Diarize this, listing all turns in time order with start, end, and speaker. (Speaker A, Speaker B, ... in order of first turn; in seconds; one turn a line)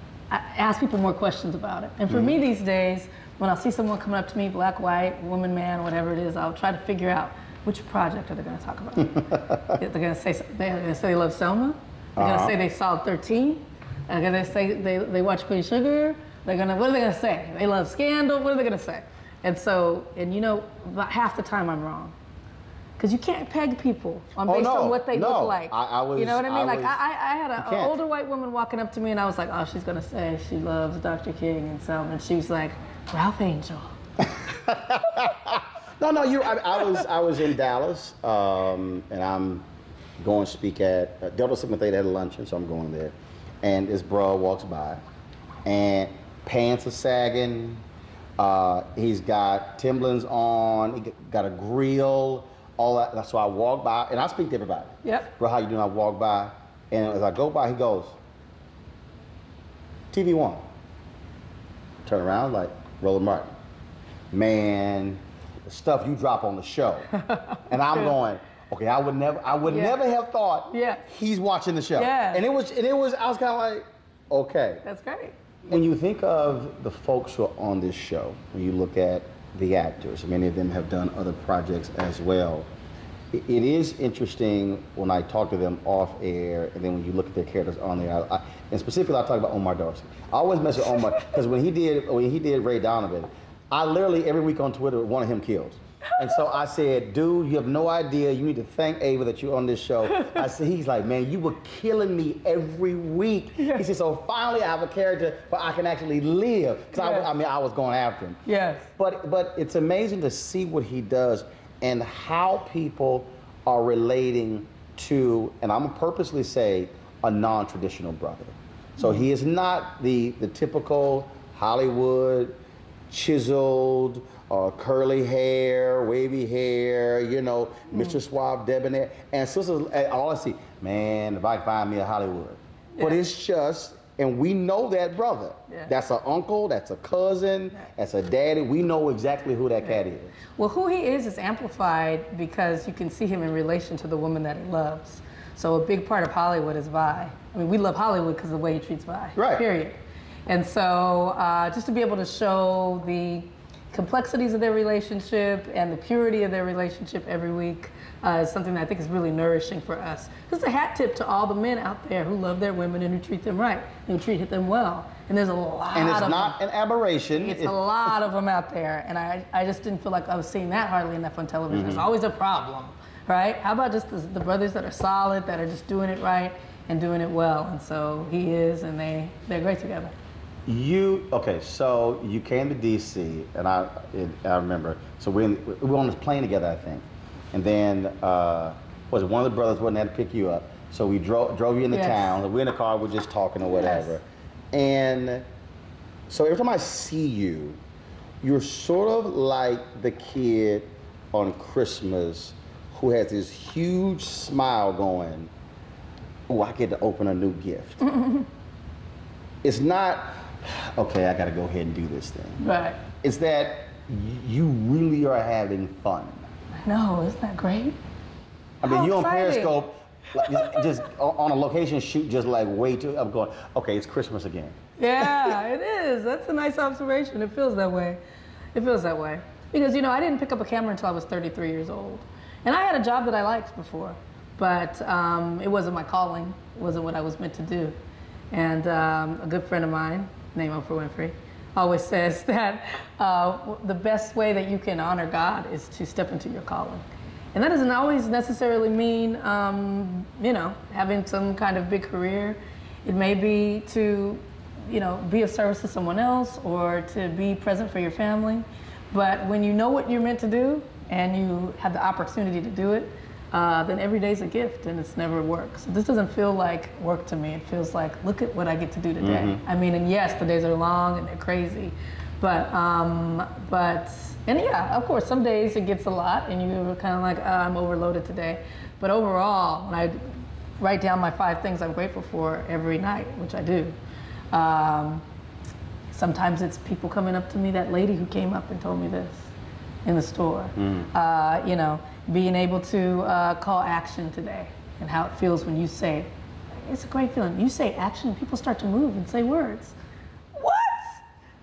Speaker A: 0.3-22.1
Speaker B: 2.1-2.4
Speaker B: 12.2-12.6
Speaker A: 23.0-33.9
Speaker B: 24.5-27.0
Speaker B: 27.6-27.9
Speaker B: 34.6-39.6
Speaker B: 40.2-45.0
Speaker B: 45.7-47.8
Speaker B: 48.4-58.1
Speaker A: 55.0-55.3
Speaker B: 60.1-60.6
Speaker B: 62.0-63.5
Speaker B: 64.3-67.1
Speaker A: 67.2-68.1
Speaker B: 67.7-74.8
Speaker A: 69.7-70.0
Speaker A: 70.7-71.1
Speaker A: 72.0-72.5
Speaker A: 74.8-75.3
Speaker B: 75.7-82.7
Speaker B: 83.3-108.4
Speaker A: 103.6-103.8
Speaker A: 107.0-107.3
Speaker A: 108.5-108.9
Speaker B: 109.0-122.6
Speaker B: 123.1-140.4
Speaker A: 127.9-128.2
Speaker A: 140.6-166.6
Speaker B: 149.4-149.6
Speaker B: 165.9-167.8
Speaker A: 167.4-180.1
Speaker B: 171.7-172.1
Speaker B: 180.7-195.4
Speaker A: 191.9-192.4
Speaker A: 193.6-194.1
Speaker B: 196.3-197.8
Speaker B: 198.4-205.5
Speaker B: 206.5-208.1
Speaker A: 208.1-208.5
Speaker B: 209.6-212.6
Speaker A: 212.6-213.0
Speaker B: 213.2-216.5
Speaker A: 216.8-218.0
Speaker B: 218.8-224.8
Speaker A: 218.8-219.8
Speaker A: 220.6-220.9
Speaker A: 225.0-228.2
Speaker A: 228.7-237.9
Speaker A: 238.5-280.2
Speaker B: 269.2-269.6
Speaker A: 280.8-283.9
Speaker A: 284.5-285.2
Speaker A: 286.1-289.5
Speaker A: 290.1-296.3
Speaker B: 290.8-291.1
Speaker A: 296.8-299.9
Speaker A: 300.6-301.2